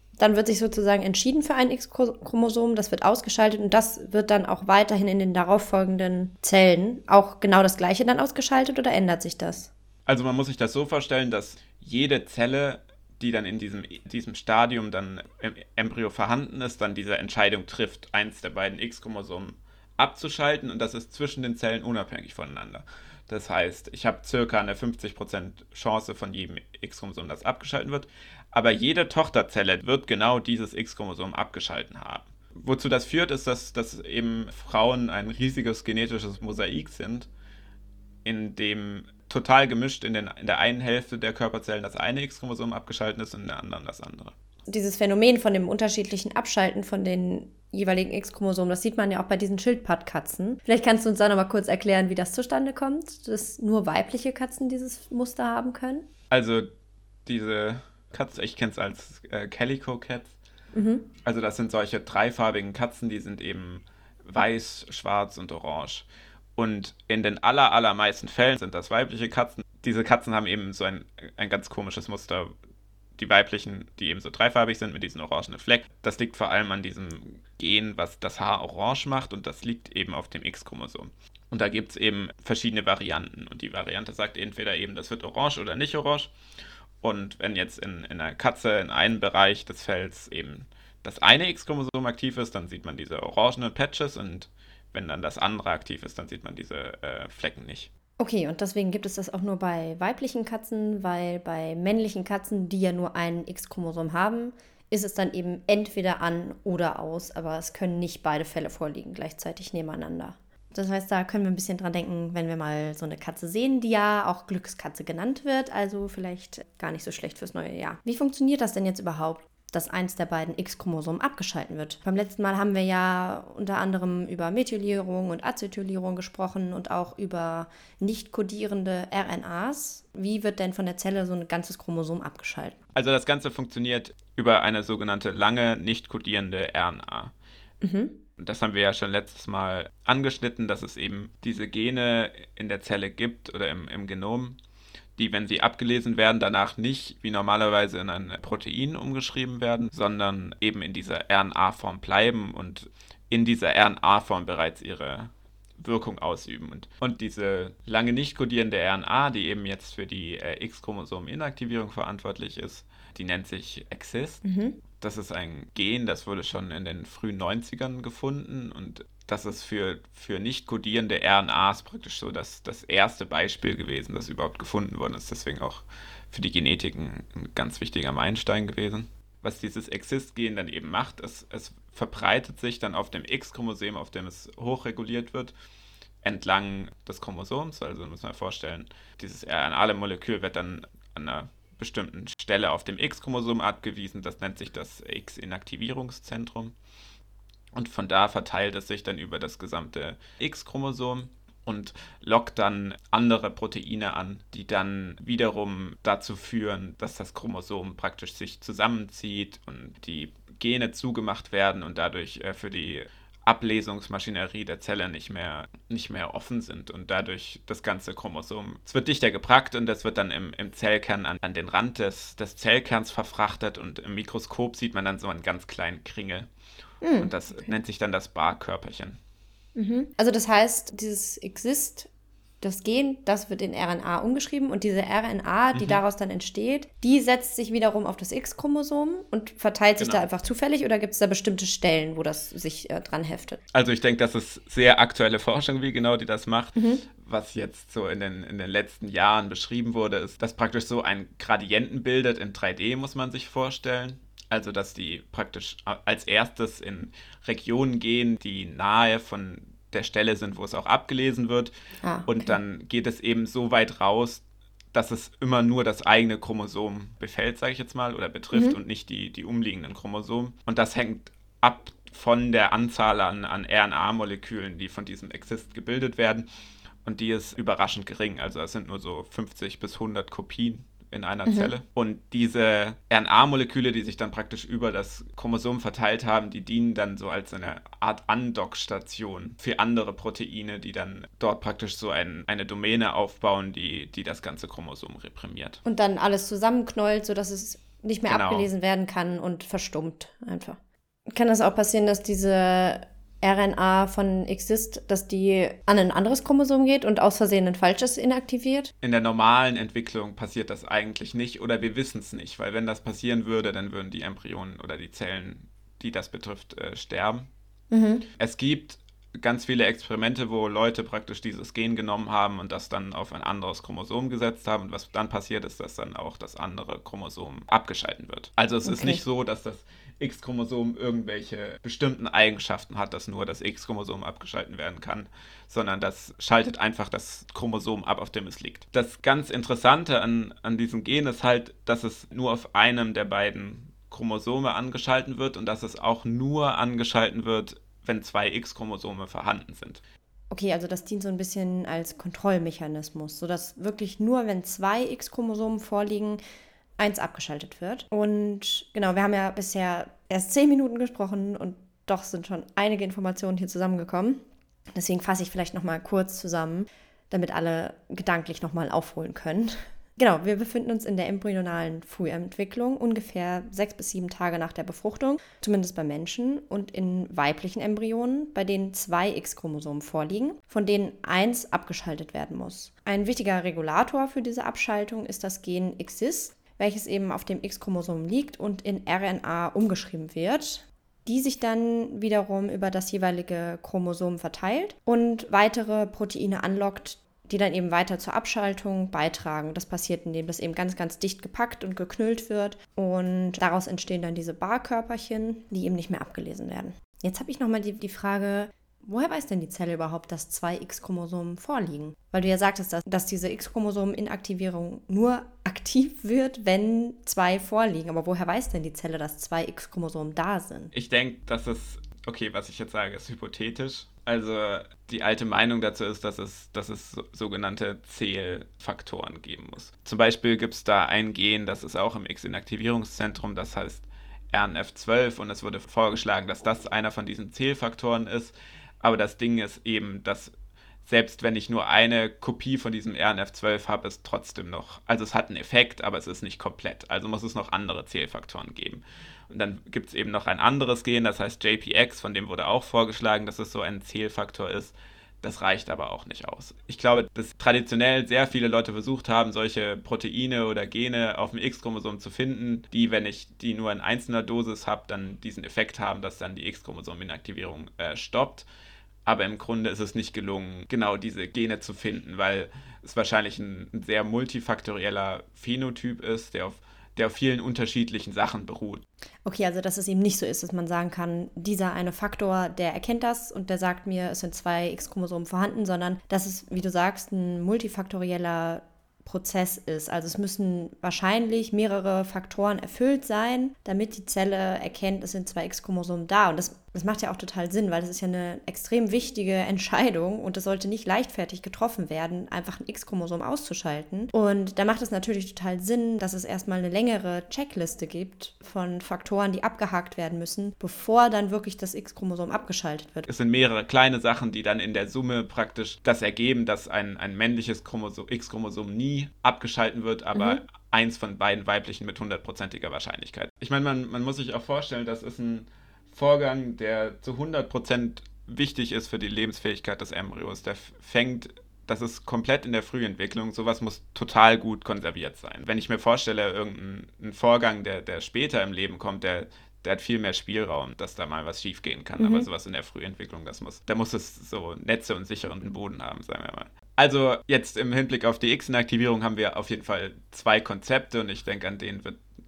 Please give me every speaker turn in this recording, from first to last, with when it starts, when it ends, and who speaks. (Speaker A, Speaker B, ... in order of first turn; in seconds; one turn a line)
Speaker A: 0.2-9.7
Speaker B: 10.1-37.3
Speaker B: 38.2-44.3
Speaker A: 44.7-56.0
Speaker B: 56.3-56.7
Speaker B: 57.2-60.4
Speaker A: 60.7-61.1
Speaker B: 61.2-72.5
Speaker B: 73.2-86.3
Speaker B: 87.0-97.9
Speaker A: 98.2-132.8
Speaker B: 132.9-137.3
Speaker A: 137.8-138.2
Speaker B: 138.4-144.6
Speaker B: 145.2-185.5
Speaker A: 164.4-164.8
Speaker B: 186.2-196.7
Speaker B: 197.7-226.5
Speaker A: 227.0-227.3
Speaker B: 227.2-229.2
Speaker A: 229.8-232.1
Speaker A: 232.6-243.6
Speaker B: 235.7-236.0
Speaker B: 240.0-240.3
Speaker B: 243.7-261.7
Speaker A: 246.8-247.0
Speaker A: 262.0-262.5
Speaker B: 262.2-276.4
Speaker A: 268.5-268.8
Speaker B: 277.0-295.8
Speaker A: 281.5-281.7
Speaker A: 295.8-300.8
Speaker B: 298.3-298.7
Speaker A: 301.3-308.9
Speaker B: 309.0-317.5
Speaker A: 317.9-318.3
Speaker B: 318.4-350.0
Speaker A: 328.8-329.2
Speaker A: 350.5-356.4
Speaker A: 357.0-364.4
Speaker A: 364.9-420.9
Speaker B: 420.9-440.5
Speaker B: 441.0-468.7
Speaker B: 469.2-479.0
Speaker A: 479.4-513.3
Speaker B: 513.3-552.2
Speaker A: 520.3-520.6
Speaker A: 542.2-542.5